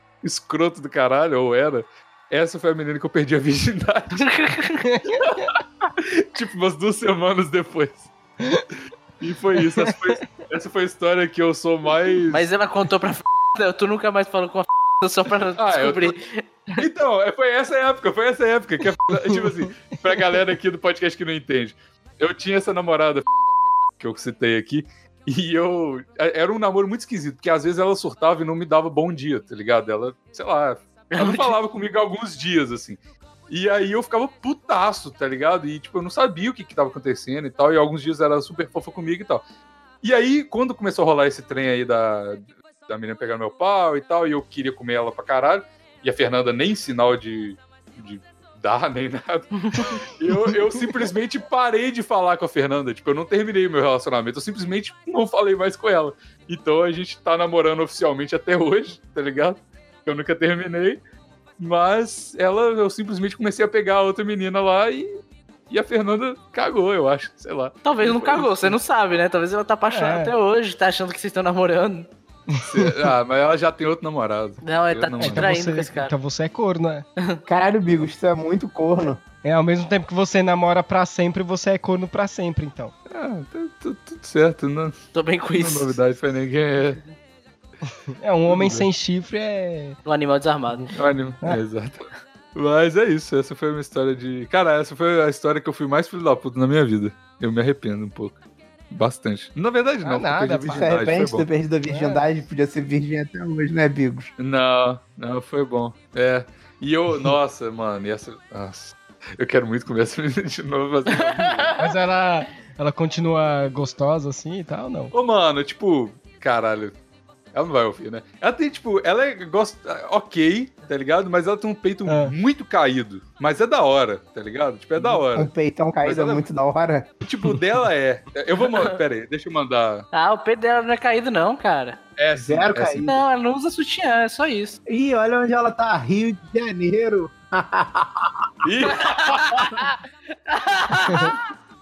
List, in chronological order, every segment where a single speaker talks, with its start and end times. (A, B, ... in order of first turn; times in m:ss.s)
0:00.2-0:04.3 A
0:04.2-0:04.8 B
0:04.9-0:05.2 C
0:05.2-0:08.1 A
0:09.2-0:12.4 A
0:09.8-0:10.1 C
0:12.3-0:16.8 B
0:15.6-0:16.1 A
0:16.8-0:23.2 A
0:24.0-0:39.4 A
0:31.2-0:31.5 B
0:40.0-1:01.0 A
1:01.6-1:05.2 A
1:05.7-1:08.8 A
1:07.8-1:12.1 B
1:09.9-1:10.3 C
1:12.5-1:12.9 C
1:12.6-1:15.5 A
1:14.6-1:16.1 B
1:15.2-1:17.0 C
1:17.5-1:19.2 D
1:19.4-1:22.9 C
1:23.1-1:25.0 A
1:25.1-1:25.9 B
1:25.6-1:27.0 A
1:28.2-1:30.0 C
1:28.5-1:28.9 A
1:30.0-1:30.9 B
1:30.9-1:38.4 A
1:38.9-1:41.4 A
1:40.0-1:41.0 C
1:40.7-1:44.3 D
1:41.8-1:42.2 C
1:44.4-1:51.8 A
1:51.4-1:51.7 B
1:51.8-1:55.1 C
1:55.1-1:56.9 A
1:57.5-2:05.5 A
2:02.0-2:02.3 C
2:05.3-2:07.1 D
2:06.0-2:06.4 A
2:07.2-2:10.0 A
2:08.6-2:08.9 B
2:10.1-2:12.0 B
2:12.2-2:13.2 A
2:12.4-2:13.1 D
2:13.0-2:14.8 B
2:14.9-2:18.5 D
2:18.6-2:19.9 A
2:19.0-2:19.9 B
2:20.5-2:21.4 B